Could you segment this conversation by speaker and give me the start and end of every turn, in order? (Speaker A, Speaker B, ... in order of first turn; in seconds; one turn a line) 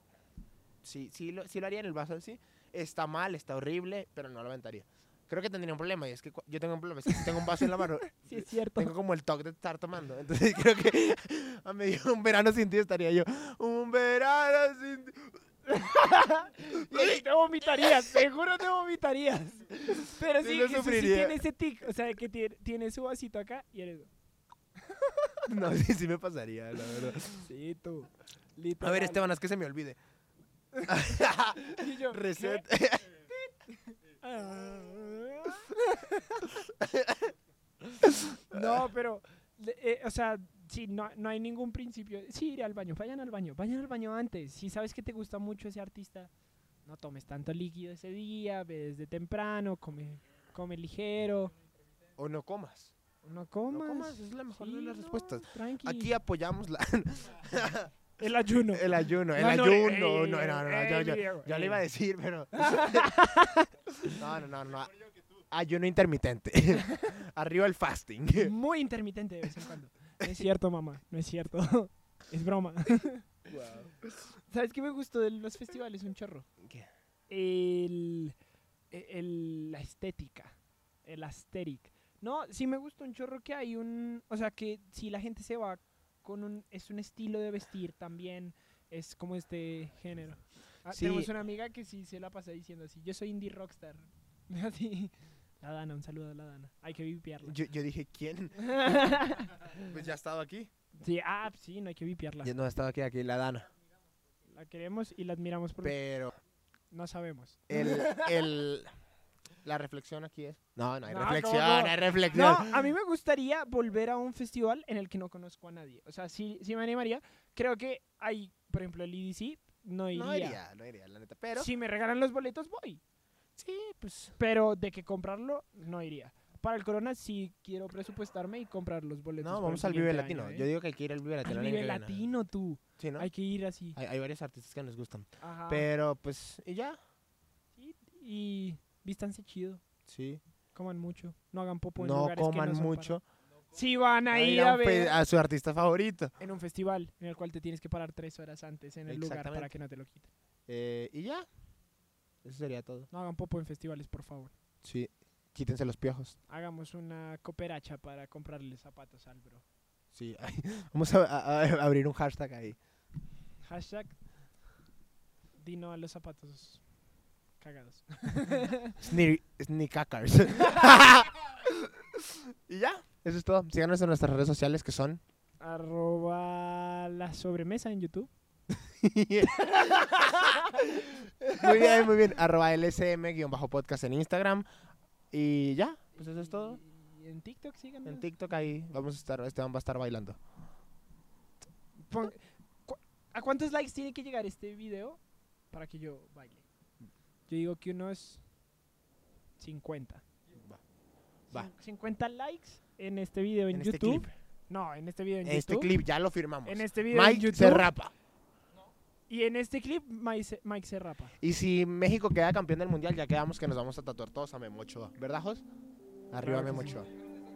Speaker A: 0.8-15.4
Speaker B: 7.1-7.4
Speaker B: 8.1-8.9
Speaker B: 15.7-24.1
Speaker A: 16.7-18.1
Speaker A: 19.9-21.4
Speaker B: 24.8-25.5
Speaker A: 25.5-27.5
Speaker B: 27.3-29.2
Speaker A: 28.8-30.0
Speaker A: 30.8-33.2
Speaker B: 31.6-32.6
Speaker B: 33.3-36.5
Speaker A: 36.5-37.3
Speaker A: 38.0-38.9
Speaker B: 38.5-46.3
Speaker B: 46.9-51.5
Speaker A: 52.2-52.9
Speaker B: 53.2-56.1
Speaker A: 53.7-57.9
Speaker B: 58.2-61.8
Speaker A: 58.6-63.1
Speaker B: 62.5-64.2
Speaker A: 64.1-68.5
Speaker B: 66.8-67.1
Speaker B: 68.4-73.3
Speaker A: 73.5-74.0
Speaker B: 74.5-76.5
Speaker A: 76.6-76.9
Speaker B: 77.3-78.3
Speaker B: 78.9-97.5
Speaker A: 90.9-91.3
Speaker A: 97.4-98.9
Speaker B: 98.6-99.9
Speaker A: 99.8-100.7
Speaker B: 101.0-102.5
Speaker A: 102.4-103.7
Speaker B: 104.5-106.0
Speaker A: 105.8-106.3
Speaker B: 106.9-108.3
Speaker A: 107.7-108.9
Speaker A: 109.6-112.9
Speaker B: 111.1-120.6
Speaker A: 120.1-121.7
Speaker B: 121.5-123.0
Speaker A: 123.6-124.3
Speaker B: 124.4-130.7
Speaker A: 129.4-132.2
Speaker B: 131.4-134.0
Speaker A: 133.0-133.3
Speaker A: 133.9-137.0
Speaker B: 135.4-135.9
Speaker B: 137.8-139.8
Speaker A: 140.1-140.4
Speaker B: 140.7-143.2
Speaker A: 142.0-143.2
Speaker B: 143.7-145.2
Speaker A: 144.3-146.3
Speaker B: 146.4-150.3
Speaker A: 149.1-149.7
Speaker A: 150.7-151.5
Speaker A: 152.4-153.1
Speaker B: 153.1-154.5
Speaker A: 154.8-156.4
Speaker B: 156.5-159.6
Speaker A: 160.1-162.8
Speaker B: 163.7-164.2
Speaker B: 165.6-166.8
Speaker B: 167.6-169.0
Speaker A: 169.0-175.2
Speaker B: 175.6-178.3
Speaker A: 178.7-184.7
Speaker B: 179.5-180.9
Speaker B: 181.6-182.1
Speaker A: 185.3-186.8
Speaker B: 186.2-188.3
Speaker A: 188.0-190.4
Speaker B: 192.0-195.2
Speaker B: 195.7-196.6
Speaker B: 197.5-198.4
Speaker B: 199.6-200.2
Speaker A: 200.5-200.8
Speaker B: 201.5-205.9
Speaker A: 203.7-204.3
Speaker A: 205.4-208.1
Speaker B: 206.6-207.9
Speaker B: 209.3-211.4
Speaker A: 211.4-215.6
Speaker A: 216.3-217.1
Speaker B: 216.4-217.0